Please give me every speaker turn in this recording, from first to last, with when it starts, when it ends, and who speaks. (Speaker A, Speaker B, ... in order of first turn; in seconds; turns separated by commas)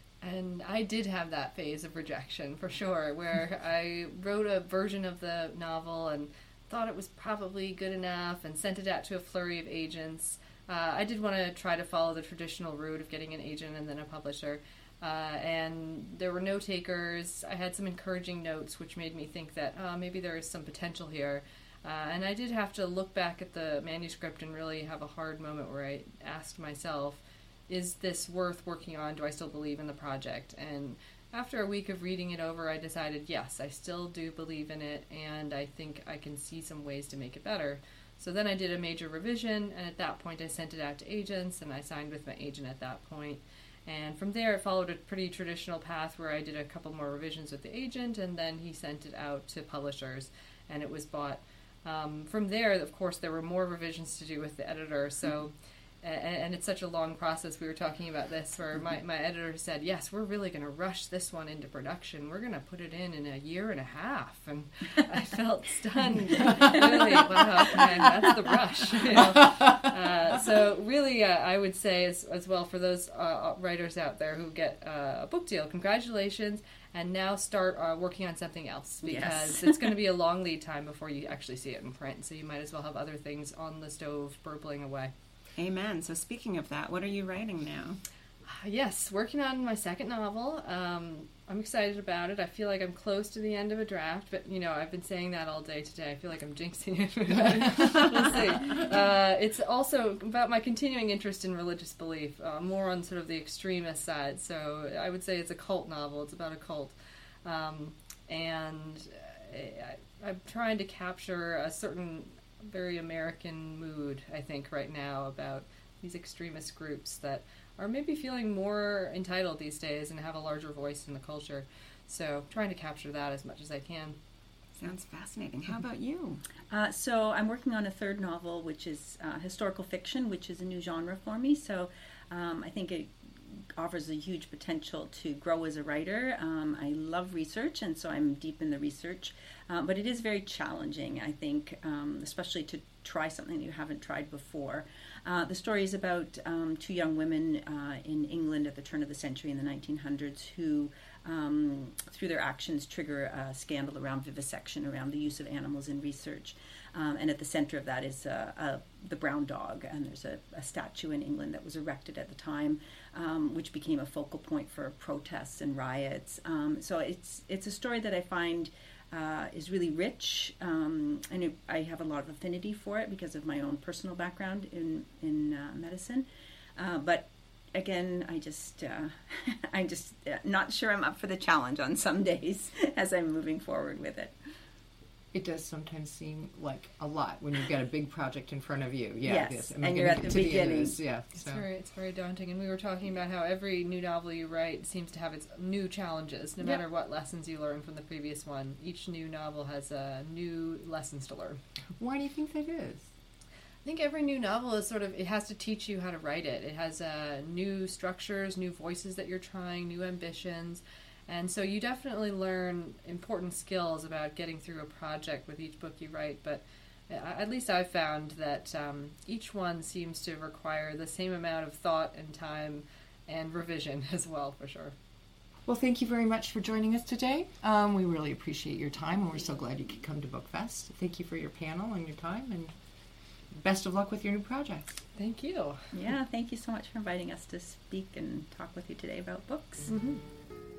Speaker A: 0.2-85.1, Speaker B: 79.0-80.0, Speaker C: 85.6-88.0, Speaker A: 88.5-124.2, Speaker C: 124.8-126.4, Speaker B: 126.7-133.1, Speaker B: 133.8-184.3, Speaker D: 185.3-191.7, Speaker B: 189.2-191.0, Speaker A: 191.3-201.6, Speaker D: 202.0-203.1, Speaker A: 203.8-224.9, Speaker D: 225.6-232.7, Speaker D: 233.5-235.0, Speaker A: 235.1-235.8, Speaker B: 235.9-239.9, Speaker A: 239.9-240.2